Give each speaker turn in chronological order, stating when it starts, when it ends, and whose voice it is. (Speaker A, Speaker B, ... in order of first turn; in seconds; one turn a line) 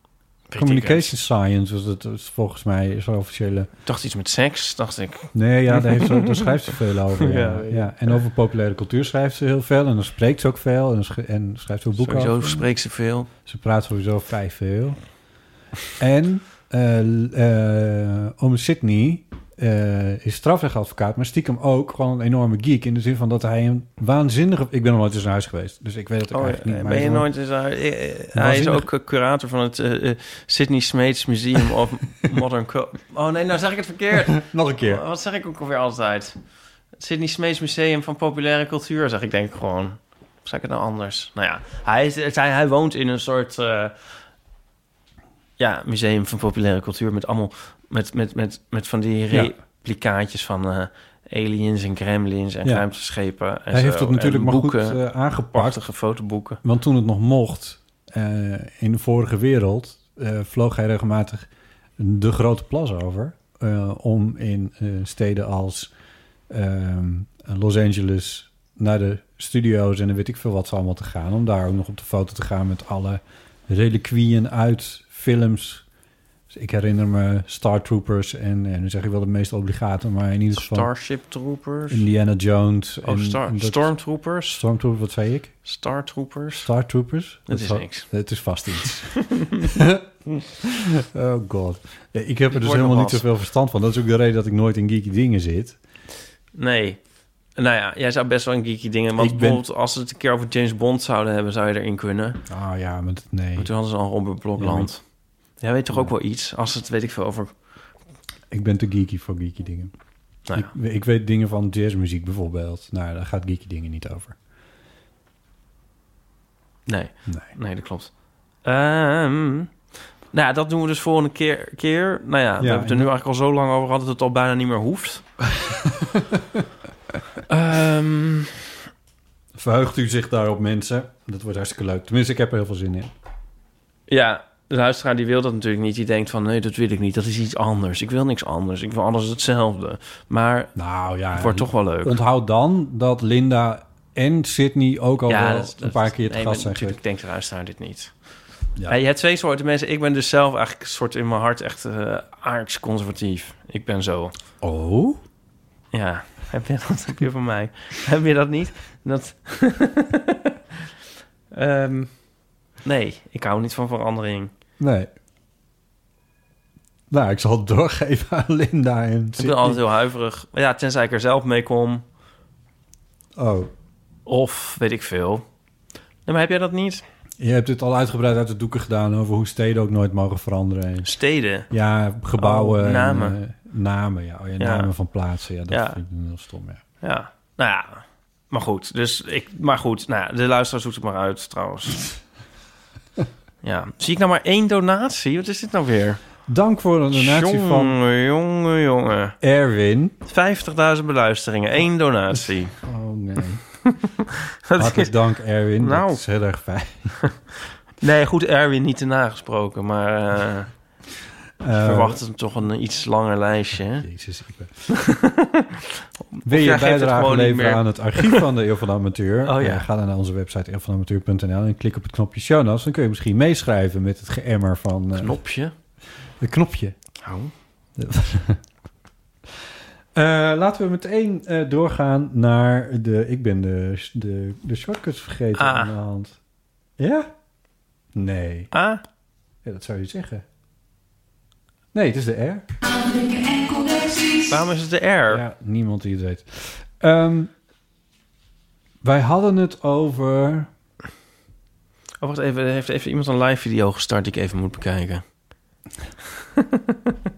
Speaker A: 0.5-1.1
Speaker B: 0.6-3.7
Speaker A: 3.9-6.5
Speaker B: 5.3-12.7
Speaker A: 7.2-8.2
Speaker A: 12.0-13.3
Speaker B: 13.4-15.0
Speaker B: 16.0-27.3
Speaker A: 26.3-36.4
Speaker B: 28.3-28.9
Speaker B: 34.3-35.0
Speaker A: 37.0-44.0
Speaker A: 45.6-55.0
Speaker B: 53.7-55.8
Speaker A: 55.5-56.6
Speaker B: 56.6-65.9
Speaker B: 66.5-75.8
Speaker B: 76.5-80.9
Speaker A: 80.5-82.1
Speaker B: 81.9-83.9
Speaker A: 83.0-84.6
Speaker B: 84.5-85.5
Speaker A: 85.7-86.7
Speaker B: 86.6-90.1
Speaker A: 87.5-88.1
Speaker A: 89.1-89.7
Speaker B: 90.6-95.8
Speaker A: 92.5-93.2
Speaker A: 96.5-97.0
Speaker A: 97.6-102.4
Speaker B: 99.2-99.6
Speaker B: 102.5-103.7
Speaker A: 103.6-105.0
Speaker B: 104.6-104.9
Speaker A: 105.6-107.6
Speaker B: 108.5-109.9
Speaker B: 110.5-114.4
Speaker A: 116.9-118.1
Speaker A: 118.6-119.7
Speaker A: 120.3-125.2
Speaker B: 122.6-123.1
Speaker B: 125.5-126.7
Speaker A: 127.5-128.5
Speaker B: 129.6-133.1
Speaker A: 134.1-140.7
Speaker B: 140.8-147.0
Speaker A: 141.3-142.2
Speaker A: 145.3-148.1
Speaker A: 148.9-154.3
Speaker B: 154.6-155.2
Speaker A: 155.9-160.5
Speaker A: 161.5-162.1
Speaker A: 162.8-164.5
Speaker B: 164.8-165.1
Speaker B: 167.1-169.8
Speaker A: 169.4-172.0
Speaker B: 173.4-173.7
Speaker A: 174.3-175.4
Speaker A: 176.3-177.0
Speaker B: 177.4-181.1
Speaker A: 181.0-181.7
Speaker B: 181.7-186.8
Speaker A: 182.4-183.4
Speaker A: 184.6-184.9
Speaker A: 185.7-186.0
Speaker A: 187.0-192.2
Speaker A: 193.6-196.2
Speaker B: 196.5-198.0
Speaker A: 197.1-199.4
Speaker B: 199.4-200.2
Speaker A: 200.3-202.8
Speaker B: 202.8-203.6
Speaker A: 204.7-205.2
Speaker B: 204.8-207.3
Speaker A: 205.8-206.2
Speaker A: 208.0-210.7
Speaker B: 211.6-212.2
Speaker A: 211.7-214.1
Speaker B: 214.0-214.9
Speaker A: 214.9-218.5
Speaker B: 216.4-225.4
Speaker A: 219.4-219.8
Speaker A: 225.2-225.7
Speaker B: 226.4-226.9
Speaker A: 227.2-227.5
Speaker B: 228.0-228.6
Speaker B: 230.2-236.4
Speaker A: 235.6-235.9
Speaker B: 237.0-237.3
Speaker B: 238.2-238.7
Speaker A: 238.7-239.0
Speaker B: 239.6-240.4
Speaker B: 241.9-242.7
Speaker A: 244.5-245.4
Speaker B: 245.3-247.5
Speaker B: 249.0-250.7
Speaker A: 252.2-255.2
Speaker A: 256.6-257.1